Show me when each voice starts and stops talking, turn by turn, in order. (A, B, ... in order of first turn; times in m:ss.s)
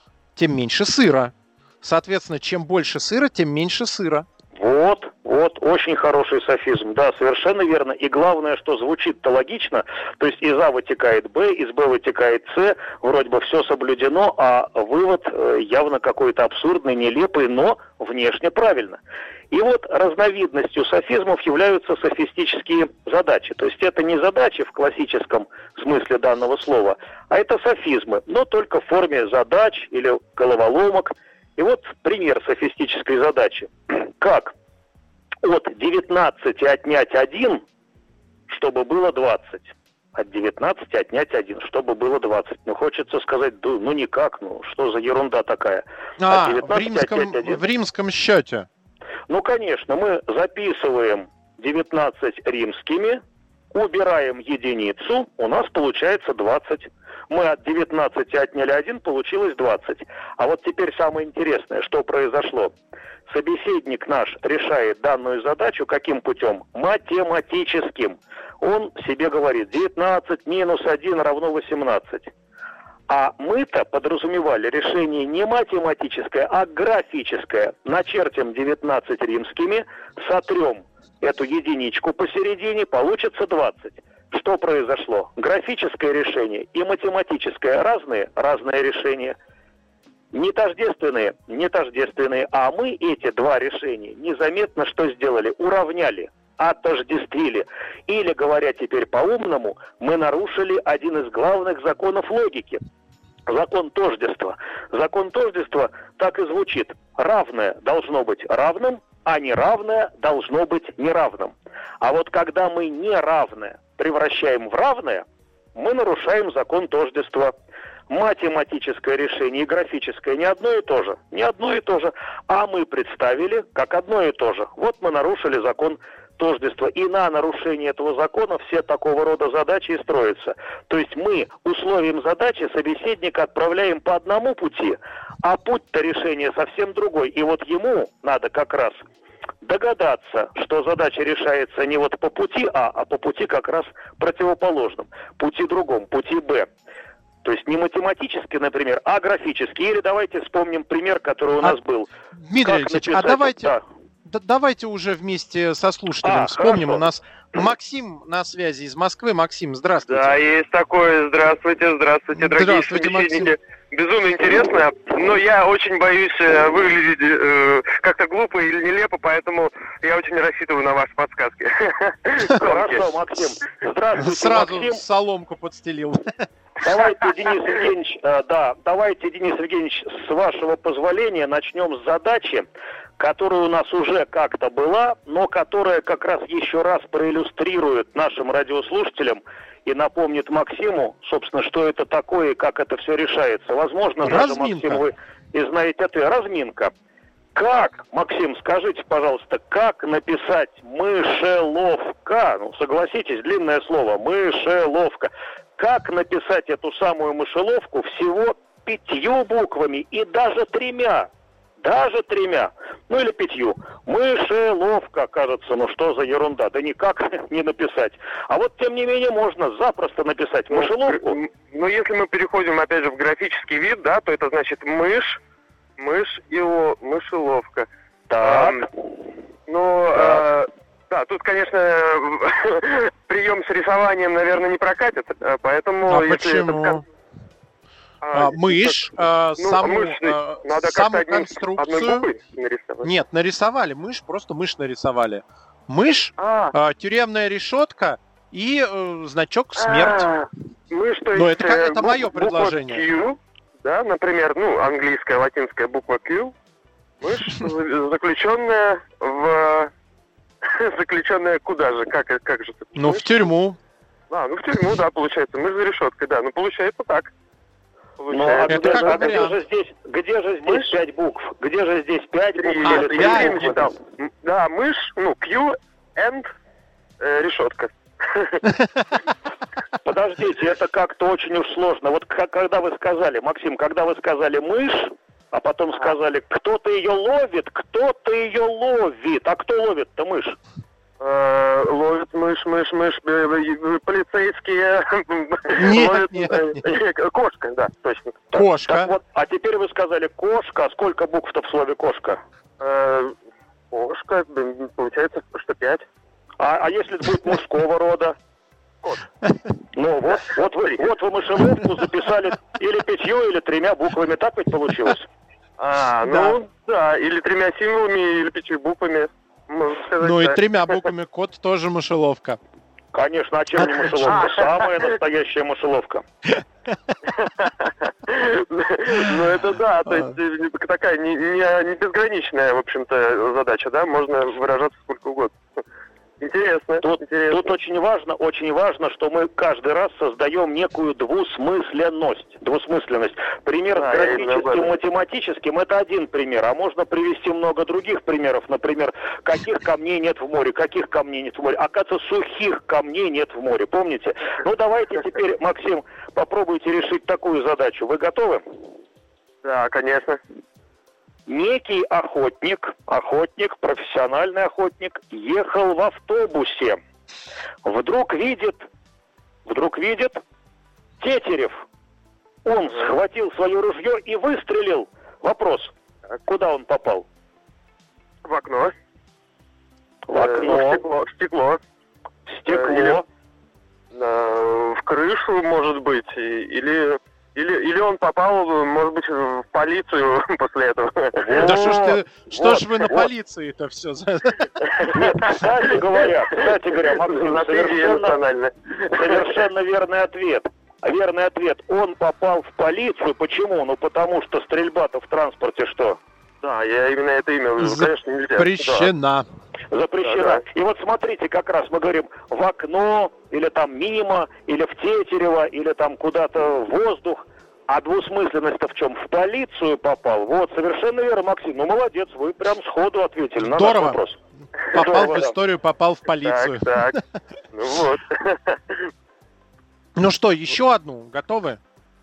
0:00.4-0:04.2 A
0:04.5-0:19.0 B
0:19.5-0:34.5 B
0:35.4-0:37.6 B
0:38.5-0:47.6 B
0:46.2-0:48.7 A
0:49.3-0:53.2 B
0:53.7-1:02.7 B
1:03.3-1:12.3 B
1:13.1-1:29.4 B
1:30.3-1:42.8 B
1:43.5-1:57.5 B
1:58.1-2:19.0 B
2:19.6-2:26.7 B
2:27.4-2:33.8 B
2:32.4-2:33.7 A
2:34.2-2:40.4 A
2:36.2-2:37.0 B
2:40.1-2:53.0 C
2:42.3-2:43.5 A
2:52.6-2:55.0 B
2:54.2-2:56.4 A
2:56.8-3:02.6 B
3:03.2-3:16.9 B
3:14.2-3:15.0 A
3:17.5-3:31.3 B
3:31.8-3:41.4 B
3:40.7-3:45.4 C
3:46.0-3:47.9 C
3:48.3-3:48.8 B
3:48.4-3:48.8 C
3:49.7-3:57.0 C
3:50.1-3:50.4 B
3:56.1-3:57.0 A
3:58.2-4:03.1 C
3:58.3-4:02.3 A
4:03.0-4:10.3 A
4:06.4-4:06.7 C
4:09.8-4:16.5 C
4:11.3-4:13.0 A
4:17.2-4:19.9 C
4:20.6-4:23.3 C
4:22.9-4:23.8 A
4:24.3-4:27.3 C
4:28.2-4:29.4 C
4:28.3-4:33.9 B
4:28.7-4:29.6 A
4:30.6-4:30.9 C
4:32.6-4:36.5 C
4:32.8-4:33.7 A
4:37.2-4:38.6 C
4:38.7-4:39.0 A
4:40.0-4:50.6 B
4:51.2-4:58.4 C
4:55.8-4:56.8 A
4:58.5-4:59.1 A
4:58.5-5:02.4 B
5:02.8-5:03.3 C
5:03.9-5:06.0 C
5:06.6-5:08.4 B
5:09.9-5:15.2 B
5:15.8-5:21.0 C
5:20.2-5:22.6 A
5:23.1-5:26.2 B
5:23.8-5:24.4 A
5:24.3-5:25.0 C
5:27.3-5:35.5 C
5:36.4-5:37.7 C
5:37.0-5:58.6 B
5:44.0-5:44.9 C
5:59.6-6:00.4 C
6:01.5-6:07.0 B
6:07.8-6:08.9 B
6:09.7-6:10.4 B
6:11.2-6:11.8 B
6:12.6-6:15.9 B
6:16.4-6:17.2 B
6:18.4-6:18.9 C
6:20.3-6:21.0 B
6:20.3-6:21.8 C
6:22.5-6:23.2 B
6:22.7-6:23.2 C
6:24.1-6:31.7 C
6:31.4-6:33.2 B
6:31.6-6:34.7 A
6:35.0-6:38.4 B
6:37.3-6:39.6 C
6:39.1-6:46.2 B
6:46.6-6:49.1 C
6:47.8-6:49.5 A
6:49.9-7:04.4 B
6:50.2-6:50.6 C
7:03.6-7:04.2 A
7:04.9-7:05.5 B
7:04.9-7:07.2 A
7:05.0-7:05.3 C
7:06.4-7:07.2 C
7:07.7-7:09.0 C
7:10.2-7:11.8 A